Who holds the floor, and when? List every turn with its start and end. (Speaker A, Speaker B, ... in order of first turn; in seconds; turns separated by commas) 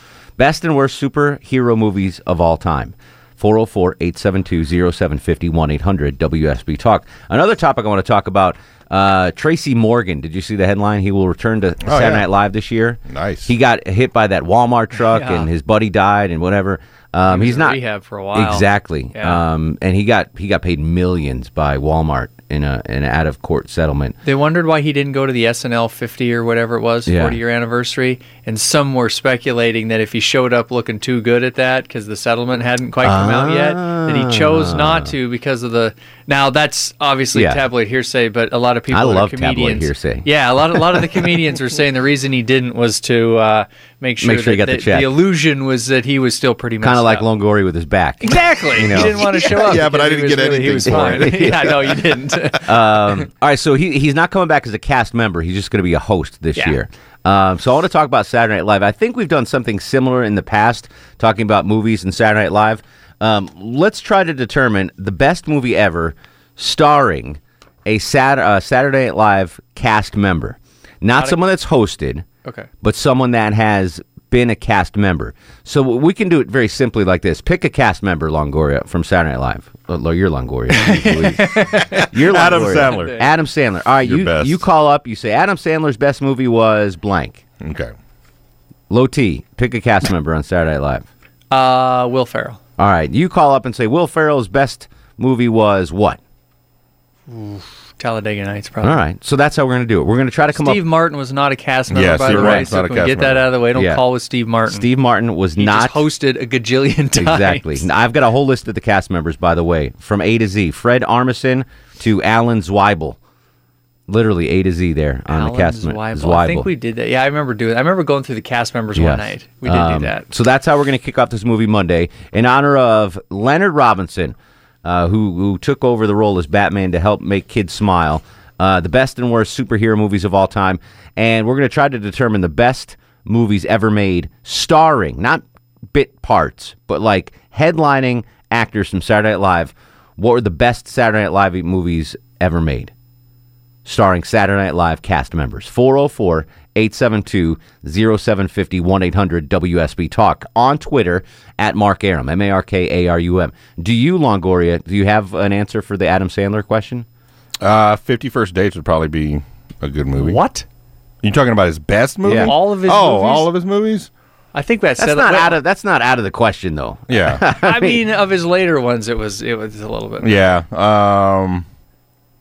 Speaker A: 0.4-17.8, Speaker B: 11.8-12.3, Speaker B: 13.1-13.5, Speaker C: 14.9-15.5, Speaker C: 17.3-19.4, Speaker A: 18.3-24.2, Speaker C: 24.2-47.2, Speaker A: 27.1-27.4, Speaker A: 33.0-35.1, Speaker A: 37.3-37.6, Speaker A: 38.9-41.2, Speaker A: 44.2-45.1, Speaker A: 46.8-49.4, Speaker C: 48.2-53.2, Speaker B: 49.2-52.0, Speaker A: 50.9-51.7, Speaker A: 52.6-72.3, Speaker C: 71.2-71.4, Speaker A: 72.8-81.5, Speaker C: 80.7-83.3, Speaker B: 81.9-83.2, Speaker A: 82.1-87.4, Speaker B: 84.0-84.6, Speaker B: 87.6-87.9, Speaker A: 88.9-91.1, Speaker C: 91.5-92.6, Speaker A: 92.8-96.2, Speaker C: 97.3-99.0, Speaker A: 98.8-100.8, Speaker C: 100.5-104.9, Speaker B: 101.9-103.5, Speaker A: 102.3-102.7, Speaker A: 103.7-104.0, Speaker A: 104.7-106.0, Speaker C: 105.6-107.9, Speaker A: 107.2-113.2, Speaker A: 114.1-116.7, Speaker C: 115.3-120.3, Speaker A: 118.9-142.9, Speaker A: 143.8-157.0, Speaker B: 157.6-160.4, Speaker C: 160.2-160.6, Speaker B: 161.2-164.1, Speaker A: 162.2-162.5, Speaker C: 162.3-163.5, Speaker C: 164.5-165.6, Speaker A: 165.0-168.0, Speaker B: 167.1-167.4, Speaker C: 167.6-170.5, Speaker B: 170.2-171.6